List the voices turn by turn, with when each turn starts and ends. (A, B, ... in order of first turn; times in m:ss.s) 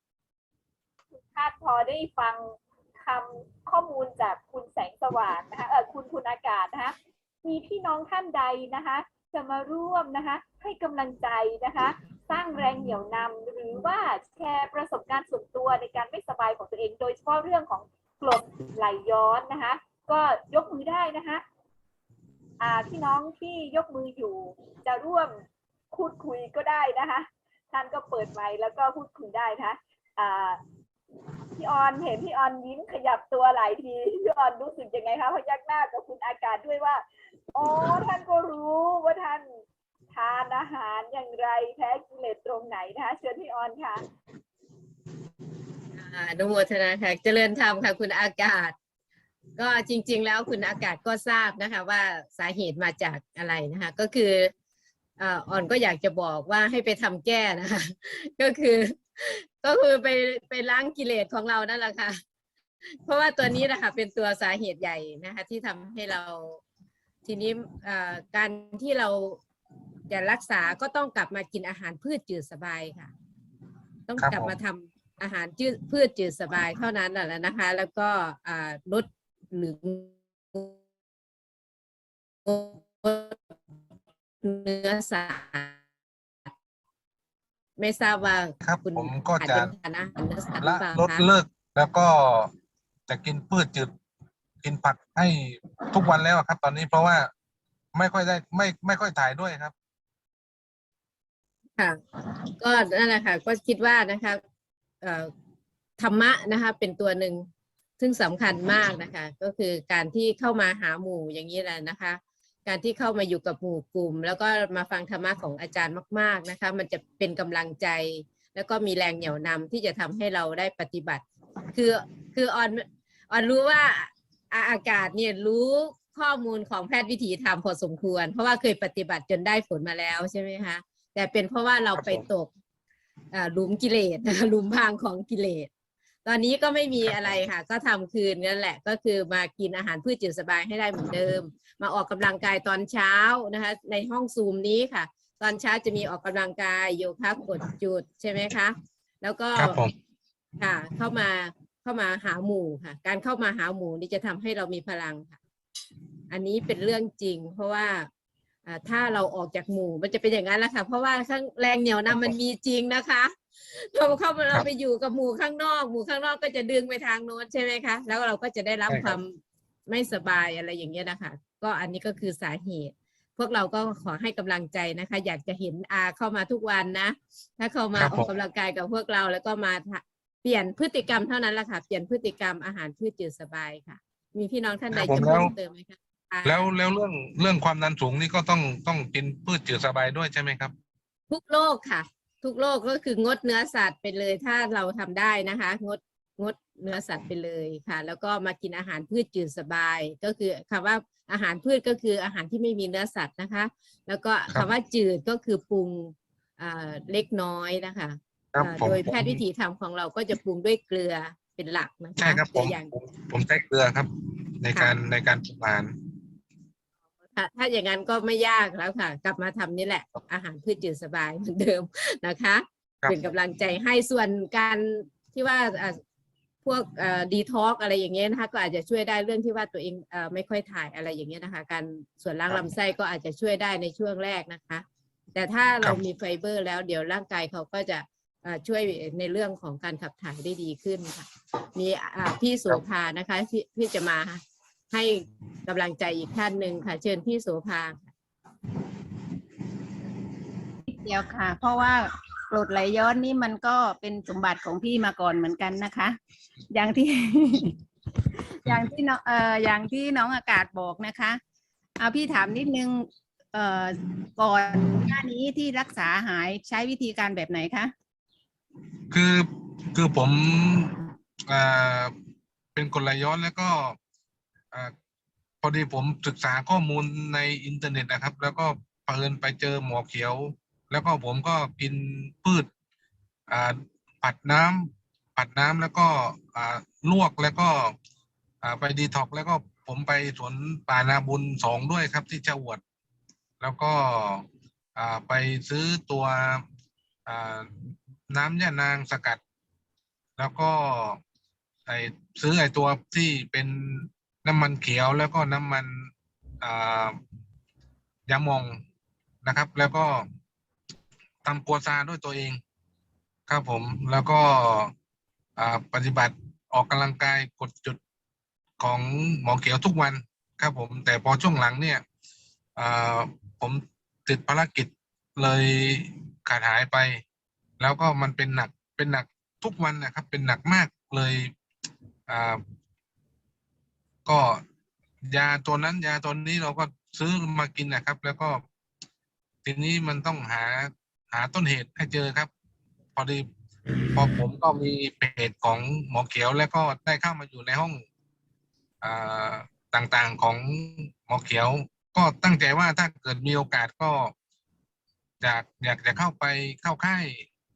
0:01.1-0:21.4 A
0:22.6-0:25.3 A
0:25.9-0:30.6 A
0:31.6-0:37.0 A
0:37.5-0:39.5 A
0:40.1-0:44.0 A
0:45.9-0:48.8 B
0:49.6-0:54.5 B
0:55.2-1:02.2 B
1:03.0-1:06.6 B
1:07.2-1:09.4 B
1:10.1-1:13.1 B
1:14.1-1:20.7 B
1:14.2-1:14.6 C
1:22.5-1:23.4 B
1:24.4-1:25.8 B
1:27.8-1:31.2 B
1:28.6-1:29.7 C
1:30.6-1:32.5 C
1:33.1-1:33.9 C
1:34.6-1:37.3 C
1:37.9-1:39.7 C
1:41.8-1:44.4 B
1:45.0-1:45.3 B
1:46.0-1:47.5 B
1:48.0-2:12.5 B
2:12.0-2:12.2 C
2:13.3-2:15.7 B
2:16.2-2:29.8 B
2:17.0-2:17.4 C
2:29.6-2:29.9 C
2:30.6-2:35.4 B
2:36.3-2:38.1 B
2:38.7-3:06.6 B
2:42.1-2:42.4 C
2:48.9-2:49.2 C
2:58.0-2:58.3 C
3:04.9-3:05.5 C
3:06.4-3:10.7 C
3:11.3-3:32.9 B
3:28.5-3:29.4 C
3:32.2-3:35.9 C
3:37.4-3:46.0 B
3:46.6-4:08.1 B
4:10.9-4:16.2 D
4:16.7-4:17.8 D
4:18.6-4:21.4 D
4:22.0-4:27.9 D
4:29.1-4:31.0 C
4:31.5-4:32.1 C
4:32.8-4:34.0 C
4:35.6-4:42.7 C
4:43.5-4:48.0 C
4:48.6-4:52.8 C
4:53.6-4:54.4 C
4:55.0-4:56.6 C
4:57.3-4:59.4 C
5:00.4-5:01.2 C
5:01.9-5:07.2 C
5:08.3-5:08.8 C
5:09.4-5:10.3 C
5:11.4-5:12.6 C
5:13.5-5:14.9 C
5:15.6-5:18.0 C
5:18.8-5:22.0 C
5:22.8-5:27.2 C
5:27.8-5:31.5 C
5:32.3-5:32.6 C
5:34.2-5:34.6 C
5:35.3-5:38.6 C
5:39.6-5:42.5 C
5:43.2-5:43.5 C
5:44.1-5:48.0 C
5:49.0-5:54.3 C
5:55.4-5:57.5 C